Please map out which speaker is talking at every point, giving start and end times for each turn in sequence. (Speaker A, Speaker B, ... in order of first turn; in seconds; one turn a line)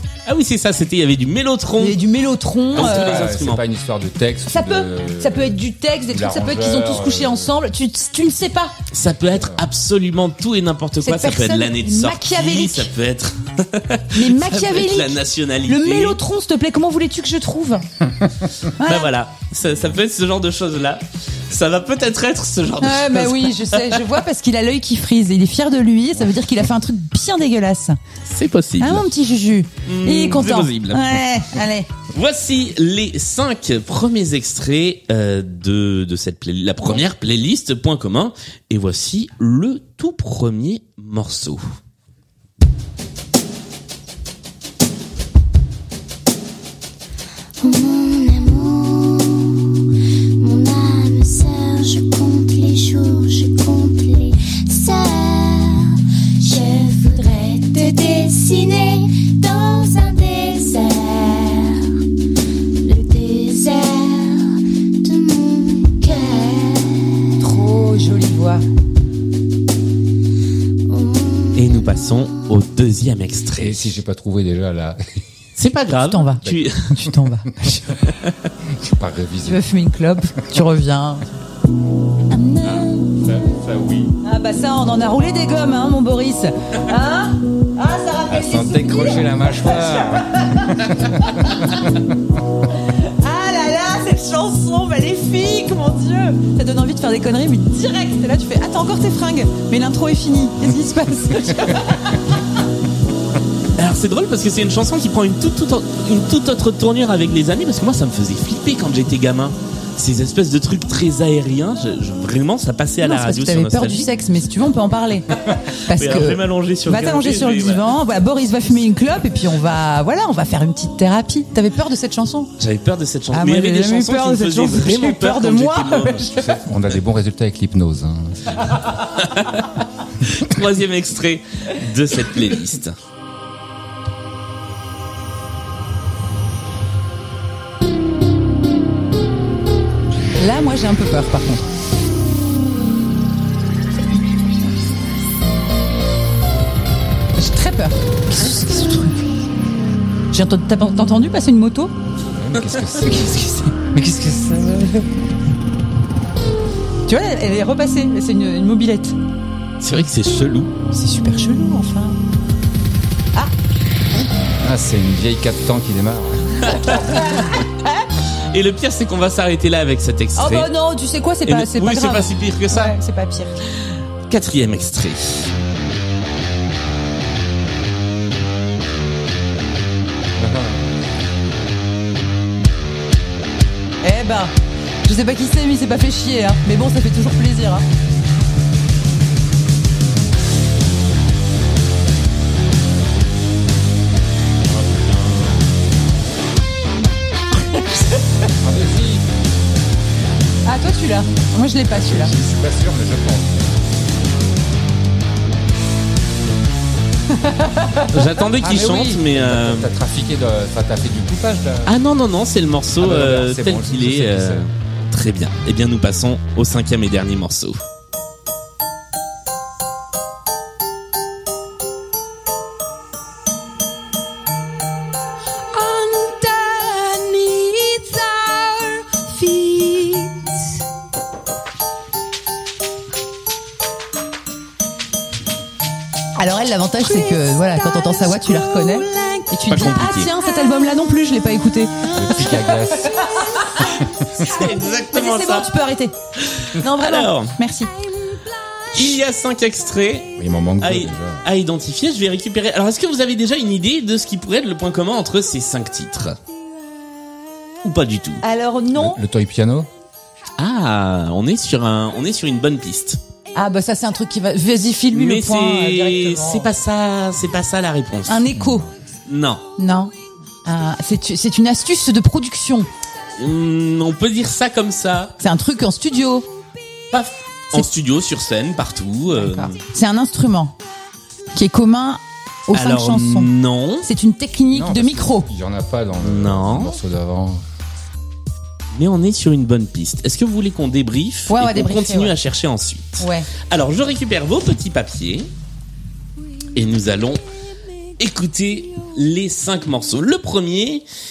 Speaker A: 0.2-2.0
Speaker B: 1.8-3.2
Speaker A: 2.7-3.6
Speaker C: 2.7-7.5
Speaker B: 4.5-8.7
Speaker A: 8.9-16.2
Speaker C: 9.3-9.6
Speaker B: 11.0-12.9
Speaker B: 14.1-17.9
Speaker B: 18.8-19.1
Speaker A: 18.8-24.0
Speaker B: 22.8-28.0
Speaker A: 28.2-29.1
Speaker B: 28.8-31.9
Speaker A: 29.8-31.2
Speaker A: 32.1-41.6
Speaker D: 48.0-49.2
Speaker D: 51.9-52.4
Speaker D: 52.9-53.9
Speaker D: 54.9-55.2
Speaker D: 58.2-59.1
Speaker D: 59.7-60.5
Speaker D: 61.1-61.5
Speaker D: 62.9-64.3
Speaker D: 65.1-66.8
Speaker B: 67.4-68.6
Speaker A: 71.5-73.8
Speaker C: 73.6-75.2
Speaker A: 75.6-76.9
Speaker B: 76.0-77.9
Speaker A: 78.0-78.3
Speaker C: 78.7-79.6
Speaker B: 79.4-81.3
Speaker B: 82.3-83.3
Speaker C: 82.7-84.1
Speaker B: 84.2-91.8
Speaker C: 88.3-91.9
Speaker B: 92.9-102.3
Speaker A: 103.8-114.1
Speaker B: 113.0-115.3
Speaker B: 115.8-122.5
Speaker A: 115.9-118.0
Speaker A: 122.6-126.4
Speaker B: 123.3-126.5
Speaker C: 126.3-128.8
Speaker A: 129.2-129.7
Speaker A: 130.2-132.9
Speaker B: 140.4-141.7
Speaker B: 147.3-149.2
Speaker B: 150.3-151.9
Speaker C: 152.2-153.9
Speaker B: 153.0-155.1
Speaker B: 157.1-159.2
Speaker A: 159.8-160.7
Speaker B: 160.9-162.2
Speaker C: 164.6-166.8
Speaker A: 166.6-167.6
Speaker B: 166.9-167.9
Speaker A: 168.5-170.7
Speaker B: 170.3-173.6
Speaker A: 171.4-172.9
Speaker A: 174.3-175.5
Speaker C: 180.3-181.0
Speaker B: 184.0-184.5
Speaker B: 185.0-187.8
Speaker C: 194.7-195.7
Speaker B: 197.7-198.0
Speaker C: 198.6-199.2
Speaker B: 200.6-202.3
Speaker C: 201.9-203.8
Speaker B: 207.3-208.9
Speaker A: 208.1-209.9
Speaker C: 208.6-211.9
Speaker A: 211.8-217.8
Speaker C: 213.0-214.6
Speaker B: 236.3-246.1
Speaker A: 239.7-240.3
Speaker C: 242.1-243.2
Speaker A: 244.3-245.7
Speaker A: 246.4-247.6
Speaker B: 246.7-247.9
Speaker A: 248.9-256.4
Speaker C: 250.4-251.4
Speaker A: 257.8-258.4
Speaker B: 258.4-259.2
Speaker C: 258.9-259.9
Speaker A: 260.6-263.2
Speaker B: 263.5-266.7
Speaker A: 265.1-268.5
Speaker B: 268.3-268.9
Speaker C: 268.5-268.9
Speaker A: 269.3-269.6
Speaker B: 269.8-270.1
Speaker B: 270.6-272.9
Speaker A: 273.4-275.3
Speaker B: 275.4-276.4
Speaker A: 277.1-279.8
Speaker B: 279.3-280.7
Speaker B: 281.5-283.5
Speaker A: 282.7-284.1
Speaker B: 284.0-285.5
Speaker C: 284.7-287.6
Speaker A: 286.2-287.0
Speaker A: 288.9-295.5
Speaker B: 291.5-292.4
Speaker B: 293.2-293.5
Speaker A: 296.7-297.4
Speaker A: 298.2-301.0